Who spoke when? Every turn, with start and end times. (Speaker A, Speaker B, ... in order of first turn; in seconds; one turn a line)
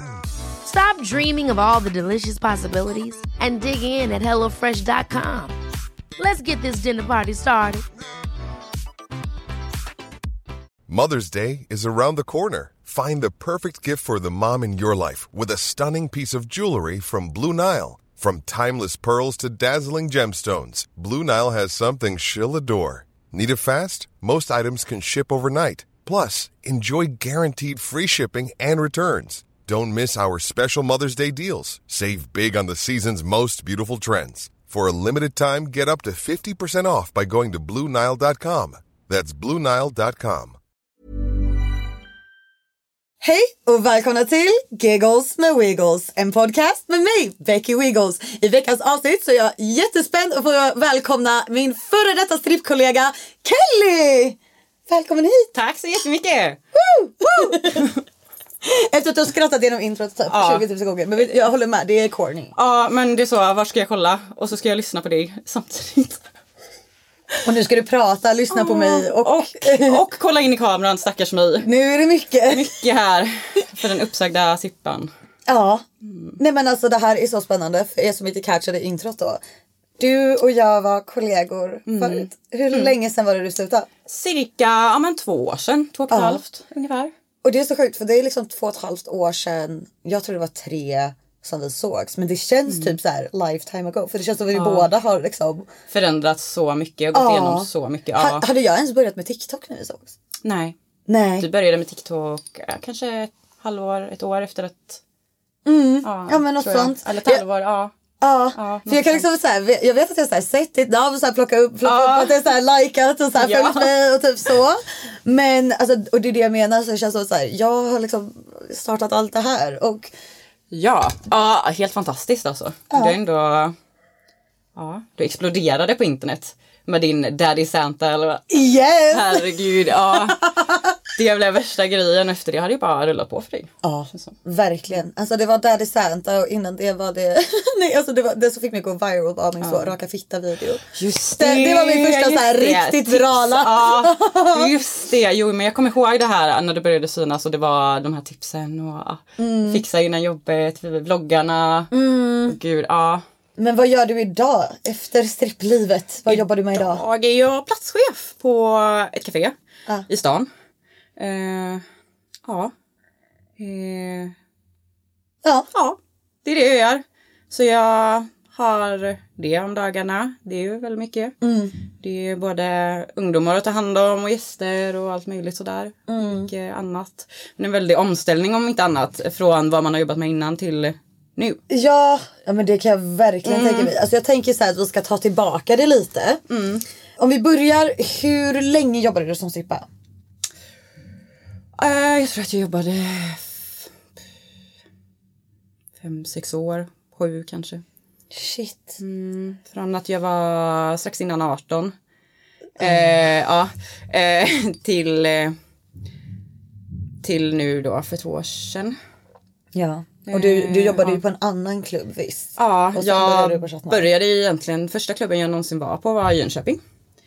Speaker A: 0.6-5.6
Speaker A: 6.2-7.8
Speaker B: 10.9-40.6
Speaker C: 43.2-55.5
Speaker D: 55.5-56.6
Speaker C: 56.8-57.9
Speaker D: 57.5-58.0
Speaker C: 58.6-62.5
Speaker D: 60.3-60.6
Speaker D: 62.5-66.2
Speaker C: 67.5-70.0
Speaker D: 68.5-71.7
Speaker C: 71.6-72.8
Speaker D: 72.5-75.1
Speaker C: 75.5-75.8
Speaker D: 76.0-76.4
Speaker C: 76.4-79.4
Speaker C: 80.0-83.9
Speaker D: 81.9-82.9
Speaker D: 84.1-87.1
Speaker C: 86.1-86.4
Speaker C: 87.4-95.7
Speaker D: 92.7-93.0
Speaker D: 94.5-94.9
Speaker D: 95.9-98.5
Speaker C: 97.1-100.1
Speaker D: 100.4-100.8
Speaker C: 101.1-101.5
Speaker D: 101.4-105.0
Speaker C: 105.7-107.4
Speaker D: 106.0-107.9
Speaker C: 108.2-120.1
Speaker D: 108.6-109.3
Speaker D: 111.8-112.4
Speaker D: 113.4-113.9
Speaker D: 120.7-123.8
Speaker C: 122.9-123.2
Speaker D: 124.8-128.5
Speaker C: 128.5-129.5
Speaker D: 129.1-130.5
Speaker C: 130.1-130.9
Speaker D: 131.1-134.3
Speaker C: 133.8-144.7
Speaker D: 139.6-139.9
Speaker D: 140.9-151.9
Speaker C: 149.4-149.8
Speaker C: 151.9-152.6
Speaker D: 152.4-153.2
Speaker C: 153.6-157.0
Speaker D: 156.3-159.6
Speaker D: 160.1-160.5
Speaker D: 161.2-161.8
Speaker D: 162.5-162.7
Speaker D: 163.6-164.3
Speaker D: 165.7-171.3
Speaker C: 171.4-171.7
Speaker D: 172.0-181.6
Speaker C: 176.1-176.5
Speaker C: 181.7-186.4
Speaker D: 183.4-183.9
Speaker D: 186.5-186.8
Speaker C: 187.2-189.9
Speaker D: 191.8-193.7
Speaker D: 196.0-197.8
Speaker C: 198.3-199.0
Speaker D: 199.0-201.9
Speaker C: 202.8-203.1
Speaker D: 202.8-205.6
Speaker D: 207.2-209.0
Speaker C: 209.7-214.1
Speaker D: 210.2-211.2
Speaker D: 212.6-216.8